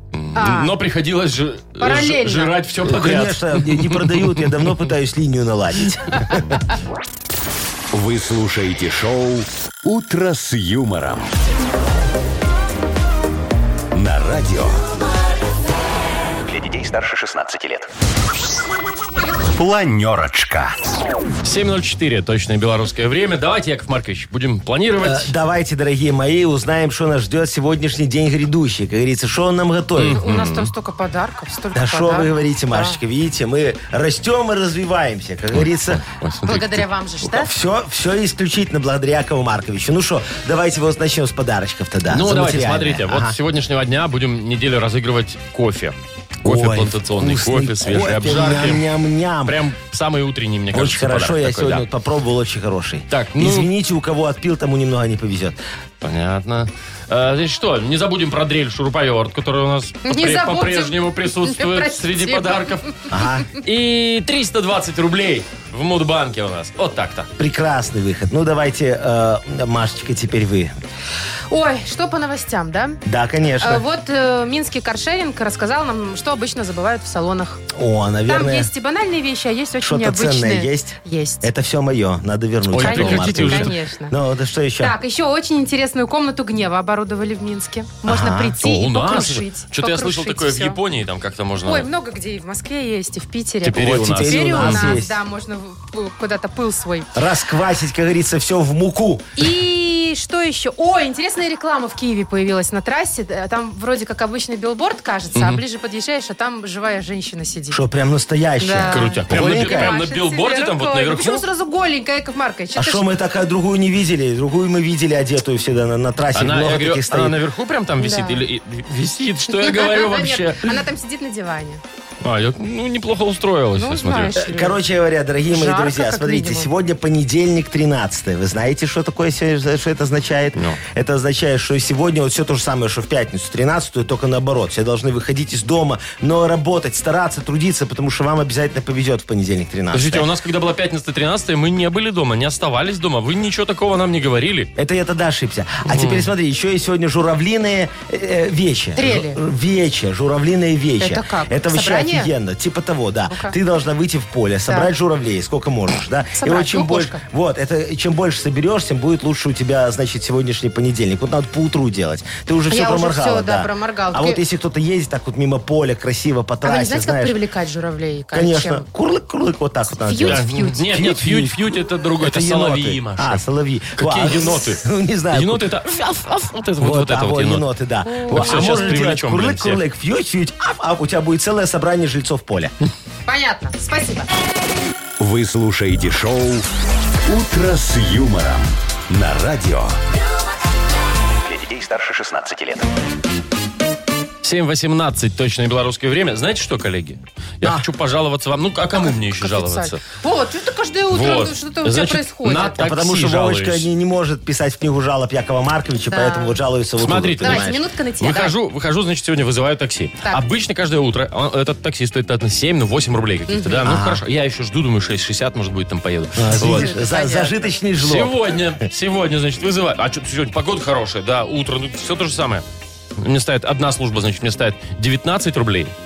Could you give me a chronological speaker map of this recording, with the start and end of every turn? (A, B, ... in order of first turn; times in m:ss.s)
0:00.1-0:04.5 A
0:00.4-0:00.7 B
0:01.8-0:02.6 B
0:02.8-0:06.4 C
0:07.9-0:11.3 D
0:13.9-0:14.8 D
0:16.5-0:17.9 D
0:19.5-0:20.8 D
0:21.4-0:25.3 A
0:25.0-0:30.2 C
0:30.0-0:30.7 A
0:30.2-0:33.0 B
0:31.7-0:36.0 C
0:35.5-0:36.9 A
0:36.4-0:37.5 B
0:37.3-0:43.4 C
0:42.1-0:48.9 A
0:46.4-0:49.6 C
0:49.4-0:51.8 A
0:50.7-0:55.6 C
0:53.1-0:53.7 A
0:56.0-1:03.0 A
1:00.0-1:03.1 B
1:03.1-1:03.5 C
1:03.6-1:07.3 A
1:07.4-1:10.7 C
1:11.5-1:13.0 B
1:13.0-1:13.8 C
1:13.6-1:17.6 B
1:17.7-1:18.7 C
1:18.3-1:21.5 B
1:19.8-1:25.0 C
1:22.7-1:23.8 A
1:22.8-1:24.2 B
1:24.8-1:30.8 B
1:28.1-1:28.6 C
1:28.6-1:31.9 A
1:31.6-1:37.1 B
1:33.6-1:35.0 A
1:33.8-1:35.2 C
1:37.2-1:39.3 C
1:39.4-1:47.8 B
1:45.4-1:45.6 A
1:47.7-1:50.0 C
1:48.6-1:53.1 B
1:48.8-1:51.4 A
1:52.8-1:57.4 C
1:56.3-2:00.8 A
1:58.0-1:58.4 B
1:59.6-2:01.8 B
2:02.2-2:04.4 A
2:03.8-2:04.8 B
2:04.4-2:20.3 C
2:05.5-2:06.7 B
2:10.6-2:10.8 A
2:19.9-2:24.7 A
2:24.8-2:47.4 C
2:25.9-2:26.3 A
2:29.0-2:29.4 B
2:31.0-2:32.3 B
2:36.4-2:37.2 B
2:42.7-2:44.4 B
2:46.6-2:48.9 B
2:48.3-2:51.6 C
2:50.1-2:50.8 B
2:50.3-2:53.4 A
2:52.2-2:55.7 C
2:54.0-2:57.7 A
2:56.8-3:02.7 C
2:58.0-2:59.1 B
2:58.3-2:59.8 A
3:03.3-3:04.3 B
3:05.2-3:06.7 D
3:07.3-3:10.0 D
3:11.4-3:12.9 D
3:14.4-3:20.0 A
3:19.0-3:22.8 B
3:21.1-3:23.9 A
3:22.7-3:27.8 C
3:26.1-3:26.6 B
3:27.0-3:36.9 A
3:27.4-3:28.6 B
3:33.5-3:33.9 B
3:33.8-3:34.2 C
3:36.4-3:38.5 C
3:36.6-3:37.8 B
3:38.0-3:42.6 A
3:43.2-3:45.9 A